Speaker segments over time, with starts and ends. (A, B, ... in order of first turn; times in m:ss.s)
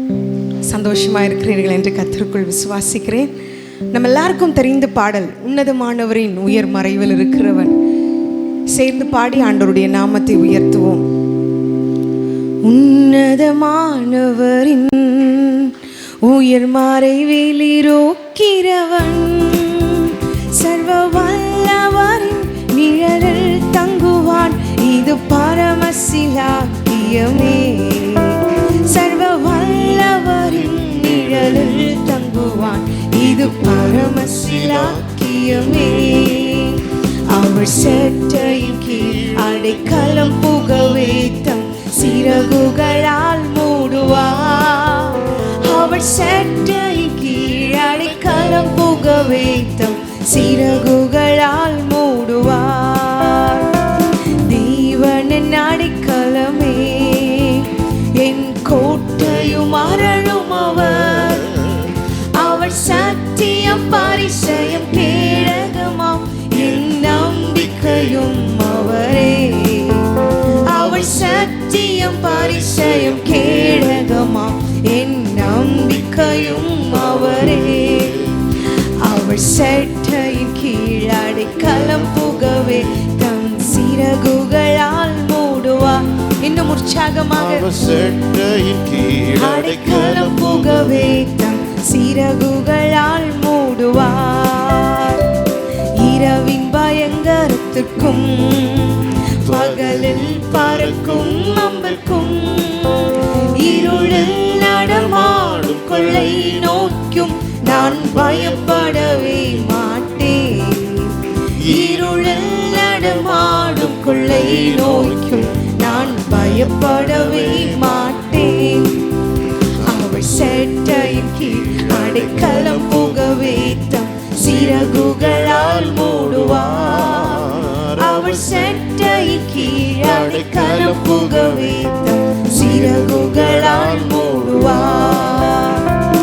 0:00.7-0:03.3 A
0:03.9-0:07.7 A
0:08.7-0:11.0 A
0:12.6-0:15.7 A
0:16.2-0:53.7 A
0:30.6-0:32.1 B
0:33.2-0:36.3 B
0:37.8-0:41.3 B
0:42.1-0:43.0 B
0:47.7-0:49.7 B
0:50.3-0:50.9 B
0:54.5-1:01.5 A
0:59.0-1:00.1 B
1:01.0-1:01.8 B
1:02.4-1:10.1 A
1:02.8-1:03.1 B
1:03.6-1:05.7 B
1:06.6-1:09.0 B
1:10.7-1:18.1 A
1:10.8-1:14.3 B
1:15.8-1:18.3 B
1:19.0-1:27.7 A
1:21.5-1:22.8 B
1:27.3-1:31.2 B
1:29.4-1:35.2 A
1:36.0-1:51.1 A
1:39.4-1:41.8 B
1:43.6-1:46.7 B
1:47.7-1:49.6 B
1:51.6-1:58.2 B
1:51.7-1:59.0 A
1:59.8-2:15.9 A
2:00.0-2:03.7 B
2:04.4-2:12.0 B
2:12.6-2:15.5 B